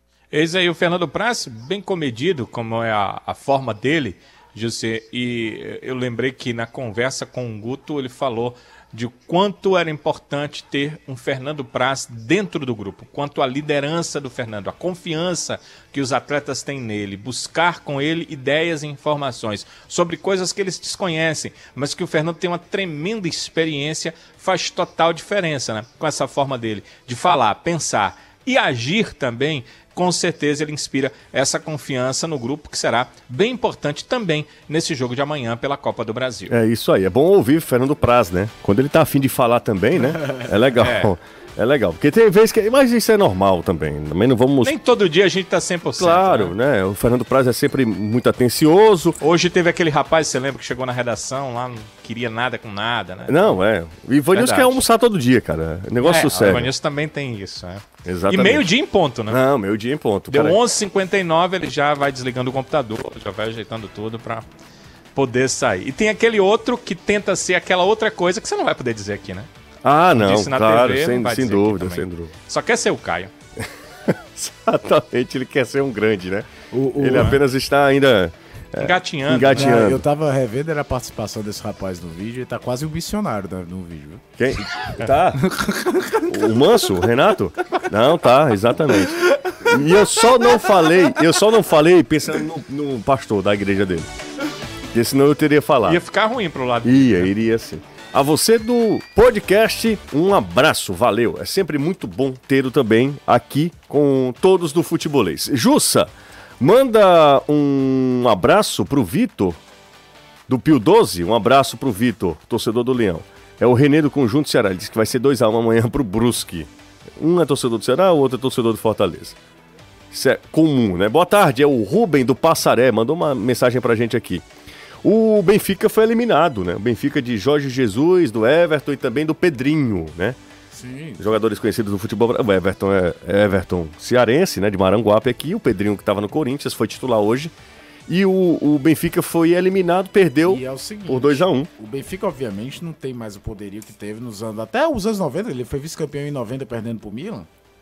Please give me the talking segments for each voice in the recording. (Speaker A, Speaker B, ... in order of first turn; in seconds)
Speaker A: 0.3-36.5, 40.8-41.1, 44.6-46.5, 49.2-53.6, 54.3-54.8, 56.0-59.4, 60.3-64.5, 65.1-69.5, 70.2-73.3, 78.8-79.8, 95.8-97.3
Speaker B: 36.5-44.7, 46.0-49.2, 53.3-56.7, 58.0-58.7, 59.3-60.6, 69.8-72.3, 74.1-80.0, 84.4-85.4, 86.3-94.1, 94.9-96.0, 96.8-109.6, 110.5-119.3, 120.1-124.4, 125.0-130.4, 131.2-137.5, 138.1-141.7
Speaker C: 76.7-77.4, 79.5-84.3, 84.8-87.1, 89.3-90.0, 130.7-131.2, 140.4-147.5